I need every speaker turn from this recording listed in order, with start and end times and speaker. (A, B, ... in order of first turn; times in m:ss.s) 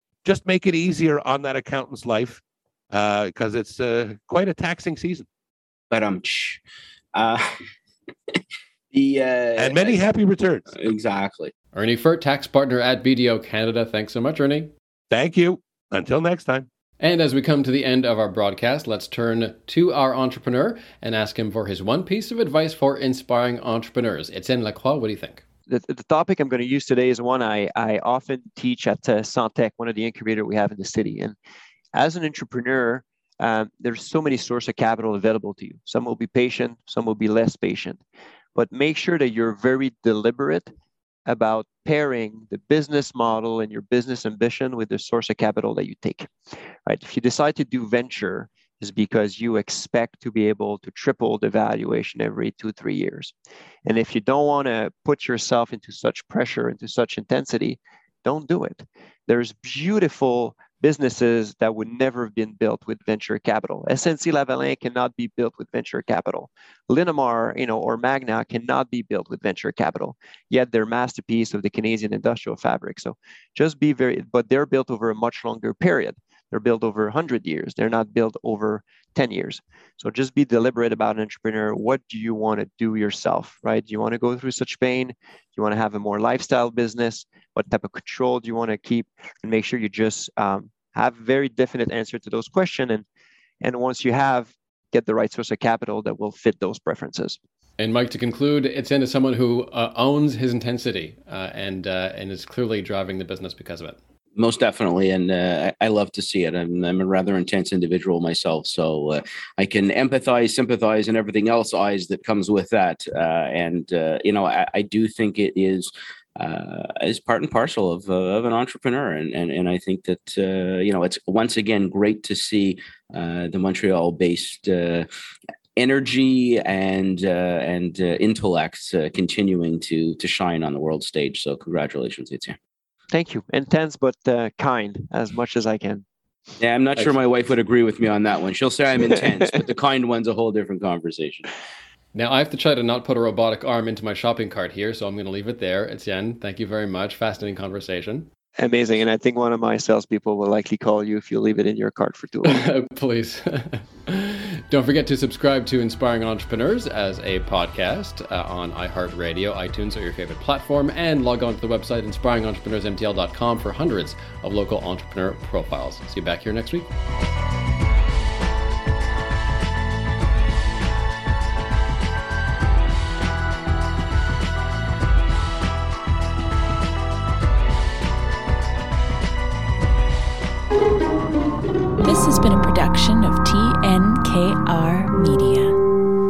0:00.2-0:05.3 A
0:05.9-0:06.6 B
0:07.2-0:07.6 B
0:08.9-0:10.0 B
0:09.6-0:10.6 A
0:10.7-0:11.5 B
0:11.7-0:14.7 C
0:15.1-0:16.7 A
0:17.0-0:25.4 C
0:25.7-0:31.4 D
0:32.0-0:38.0 D
0:38.6-0:40.7 D
0:41.3-0:46.3 D
0:46.9-0:53.3 D
0:53.8-1:33.0 D
1:33.6-1:37.4 D
1:37.8-1:44.0 C
1:44.4-2:05.1 B
2:05.8-2:12.6 B
2:13.1-2:16.0 D
2:16.6-2:21.5 B
2:22.1-2:28.3 C
2:28.6-2:32.6 D
2:32.4-2:46.9 C
3:02.0-3:05.8 E